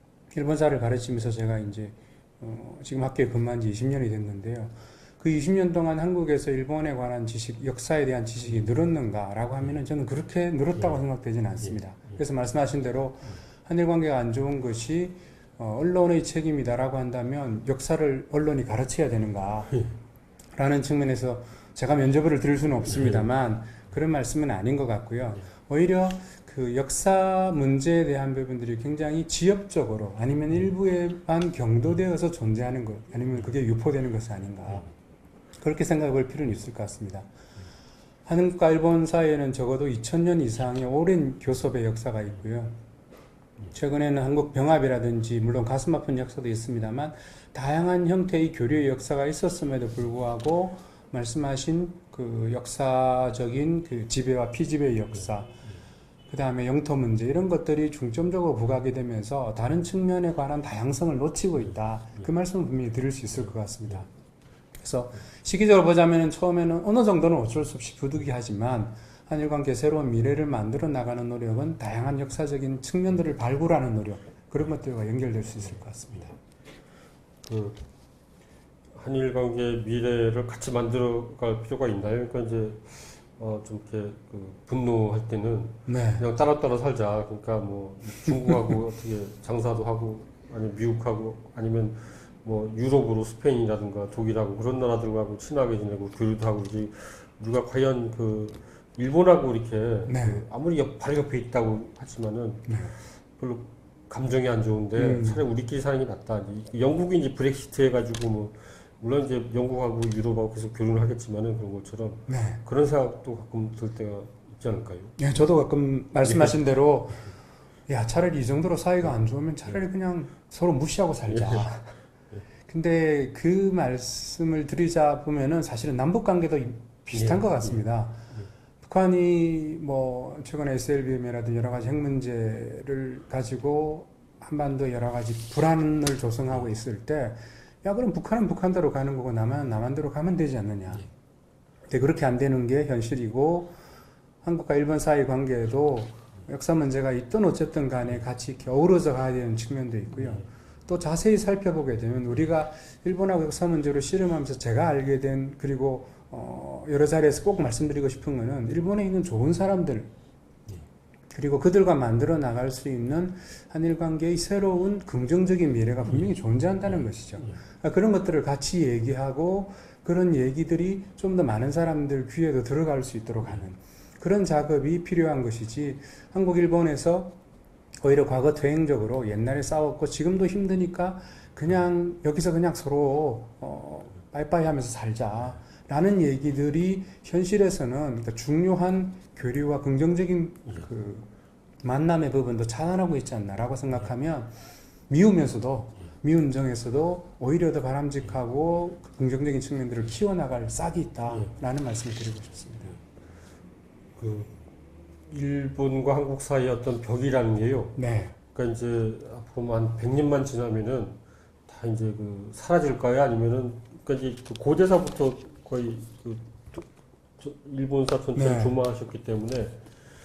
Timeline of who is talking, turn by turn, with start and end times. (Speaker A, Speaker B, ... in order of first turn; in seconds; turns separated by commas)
Speaker A: 0.3-19.7, Speaker A: 20.6-34.9, Speaker B: 23.0-23.2, Speaker A: 35.6-37.3, Speaker A: 38.2-42.8, Speaker A: 43.7-55.6, Speaker A: 56.3-64.1, Speaker A: 64.8-76.3, Speaker B: 77.4-77.8, Speaker B: 78.9-115.1, Speaker A: 85.9-86.2, Speaker A: 100.1-100.4, Speaker A: 102.7-102.9, Speaker A: 105.0-105.4, Speaker A: 112.3-112.6, Speaker A: 115.2-117.3, Speaker B: 116.2-116.6, Speaker A: 117.9-121.9, Speaker B: 121.3-121.6, Speaker A: 122.7-128.2, Speaker B: 127.1-127.8, Speaker A: 128.8-141.0, Speaker A: 141.9-143.7, Speaker A: 144.4-160.1, Speaker A: 161.3-177.3, Speaker A: 178.0-191.3, Speaker A: 191.8-194.5, Speaker A: 195.1-202.9, Speaker B: 204.2-204.7, Speaker B: 205.3-208.0, Speaker A: 208.0-208.3, Speaker B: 208.5-216.9, Speaker B: 217.4-219.8, Speaker A: 218.3-218.7